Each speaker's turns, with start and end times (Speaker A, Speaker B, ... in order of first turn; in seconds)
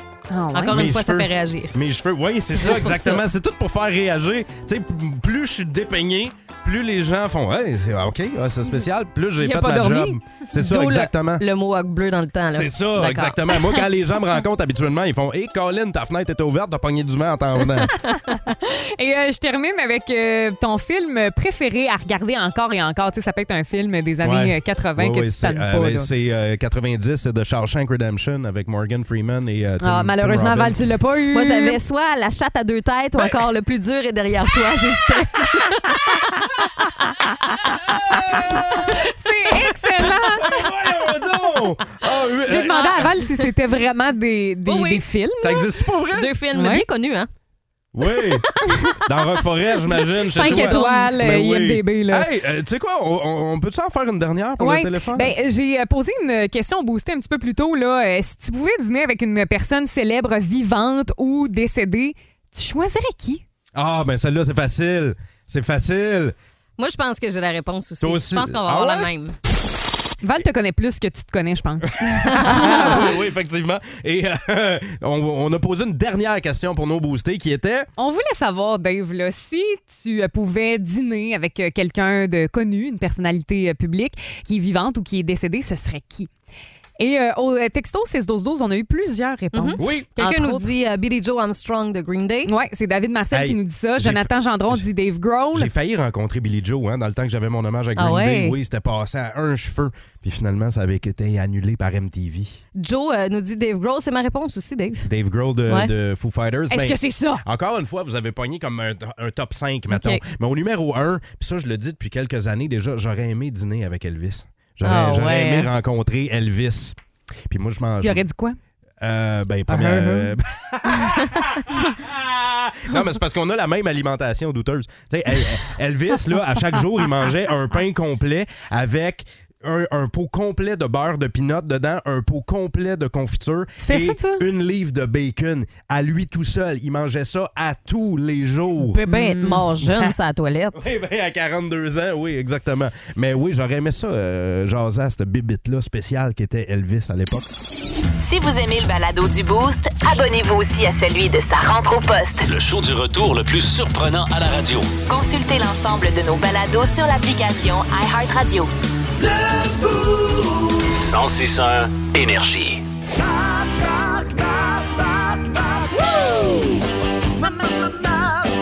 Speaker A: 0.3-0.8, 9.4-10.4, 18.1-26.1, 29.8-31.8, 38.5-40.6, 42.5-45.7, 46.5-46.8, 50.3-52.3, 54.6-63.4, 70.2-73.1, 78.0-86.3, 87.0-90.7, 92.5-95.7, 106.7-107.4, 118.0-118.6, 119.7-120.3, 133.8-134.4, 139.0-140.1
Speaker B: 0.5-1.8, 2.5-3.2, 10.6-13.8, 31.3-36.2, 42.5-43.1, 44.6-45.0, 46.1-47.3, 48.1-49.0, 49.9-51.1, 66.8-69.3, 72.1-73.1, 89.5-92.5, 98.0-98.5, 102.8-105.1, 109.9-110.2, 114.8-115.7, 138.9-140.8
Speaker C: 0.7-11.4, 12.5-18.0, 24.2-30.8, 37.8-39.0, 40.0-43.1, 45.4-46.3, 47.9-48.5, 49.0-55.3, 63.7-66.3, 68.0-69.1, 72.0-77.9, 89.8-90.1, 93.3-94.9, 95.5-102.6, 105.0-117.0, 117.5-118.2, 119.0-139.0, 140.7-147.5, 166.0-166.8
Speaker D: 148.2-152.5, 155.1-158.7
Speaker E: 152.4-154.9, 160.9-162.8